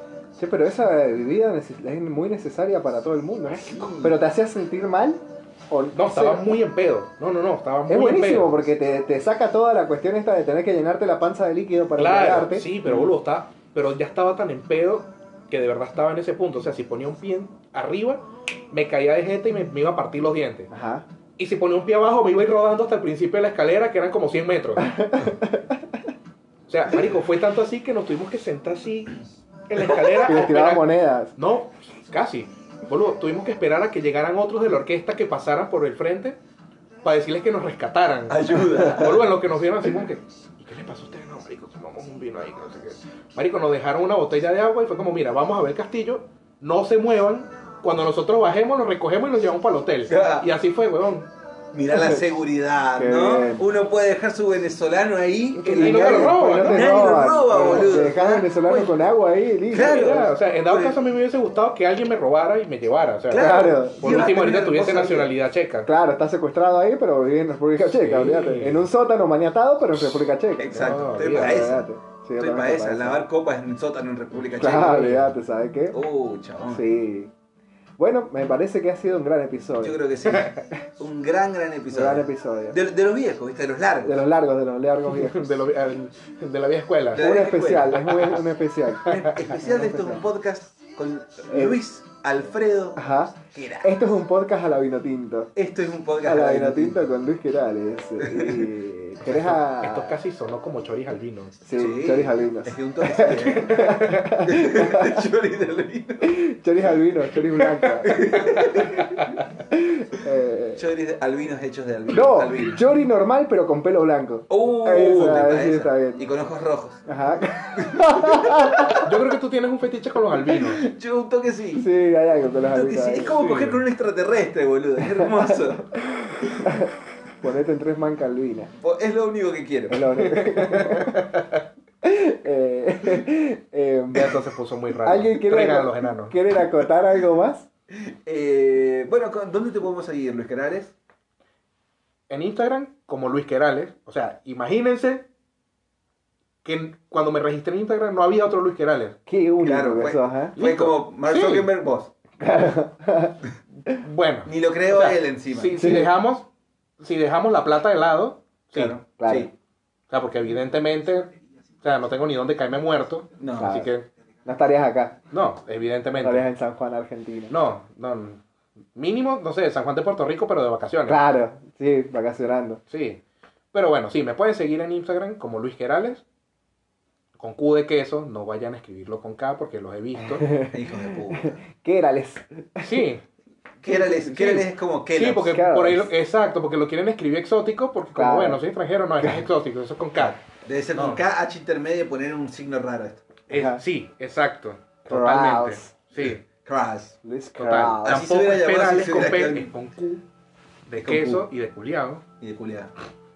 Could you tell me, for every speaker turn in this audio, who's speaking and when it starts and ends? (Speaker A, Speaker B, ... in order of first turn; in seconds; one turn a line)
Speaker A: 0.4-6.6
Speaker B: 3.5-4.2
Speaker C: 5.9-8.6
Speaker A: 7.9-13.1
Speaker C: 12.0-20.7
Speaker A: 20.7-21.1
Speaker C: 21.4-25.0
Speaker A: 24.8-25.8
Speaker C: 26.7-36.4
Speaker A: 30.1-31.3
Speaker C: 37.0-51.3
Speaker B: 38.3-39.3
Speaker B: 50.1-50.5
Speaker B: 51.7-59.1
Speaker A: 51.9-52.2
Speaker A: 53.0-53.6
Speaker C: 55.6-57.2
Speaker A: 55.7-60.3
Speaker B: 59.6-61.0
Speaker C: 59.9-65.9
Speaker B: 63.3-65.3
Speaker A: 63.3-64.2
Speaker A: 65.8-73.2
Speaker C: 67.8-68.8
Speaker B: 70.0-75.2
Speaker C: 70.7-71.7
Speaker A: 74.5-76.0
Speaker C: 74.8-75.3
Speaker B: 75.9-76.8
Speaker A: 76.6-77.3
Speaker A: 78.0-80.0
Speaker B: 79.8-84.2
Speaker C: 80.3-80.6
Speaker A: 81.9-82.8
Speaker A: 84.0-85.4
Speaker C: 85.1-87.2
Speaker B: 87.1-88.3
Speaker A: 87.1-90.3
Speaker C: 88.1-88.4
Speaker B: 89.0-93.0
Speaker A: 91.5-91.8
Speaker A: 93.0-95.5
Speaker B: 93.5-94.2
Speaker B: 95.5-97.1
Speaker A: 96.2-100.2
Speaker B: 98.2-98.7
Speaker C: 99.2-101.5
Speaker A: 101.6-105.2
Speaker B: 101.8-106.4
Speaker C: 103.7-104.3
Speaker A: 106.2-108.4
Speaker C: 107.8-109.4
Speaker B: 108.0-109.3
Speaker A: 109.7-110.8
Speaker B: 110.7-112.8
Speaker A: 112.1-116.2
Speaker B: 114.5-117.0
Speaker A: 117.0-119.0
Speaker B: 117.8-119.1
Speaker C: 119.0-120.8
Speaker B: 120.4-121.8
Speaker A: 121.8-123.4
Speaker B: 122.7-126.7
Speaker C: 123.3-123.8
Speaker A: 125.0-128.7
Speaker B: 128.8-130.0
Speaker A: 129.9-131.2
Speaker C: 130.2-131.6
Speaker A: 132.0-134.4
Speaker C: 134.1-136.4
Speaker A: 135.0-137.7
Speaker B: 137.9-140.9
Speaker C: 142.3-145.3
Speaker C: 146.6-149.2
Speaker A: 149.3-150.5
Speaker B: 149.6-152.1
Speaker C: 150.6-151.7
Speaker A: 152.4-153.4
Speaker C: 153.8-156.5
Speaker B: 154.4-155.8
Speaker A: 155.8-156.1
Speaker C: 157.0-158.9
Speaker B: 158.7-159.5
Speaker A: 159.2-159.5
Speaker C: 160.1-164.1
Speaker B: 163.4-163.9
Speaker A: 163.6-163.9
Speaker A: 164.4-165.2
Speaker C: 165.3-166.4
Speaker A: 166.2-167.5
Speaker C: 167.5-168.4
Speaker C: 168.9-171.2
Speaker A: 171.1-172.8
Speaker C: 172.9-173.2
Speaker C: 173.7-176.2
Speaker C: 177.4-180.5
Speaker A: 180.2-183.0
Speaker B: 180.7-181.6
Speaker C: 182.8-183.2
Speaker B: 183.8-185.6
Speaker C: 183.9-190.4
Speaker A: 185.4-186.1
Speaker A: 188.1-188.6
Speaker A: 189.2-189.5
Speaker B: 190.5-193.3
Speaker C: 190.9-191.2
Speaker C: 193.5-196.4
Speaker A: 193.5-193.8
Speaker A: 195.1-195.9
Speaker B: 196.6-197.2
Speaker A: 197.2-198.3
Speaker C: 197.6-200.2
Speaker B: 198.0-199.7
Speaker C: 200.9-202.2
Speaker B: 201.0-201.4
Speaker B: 202.4-202.9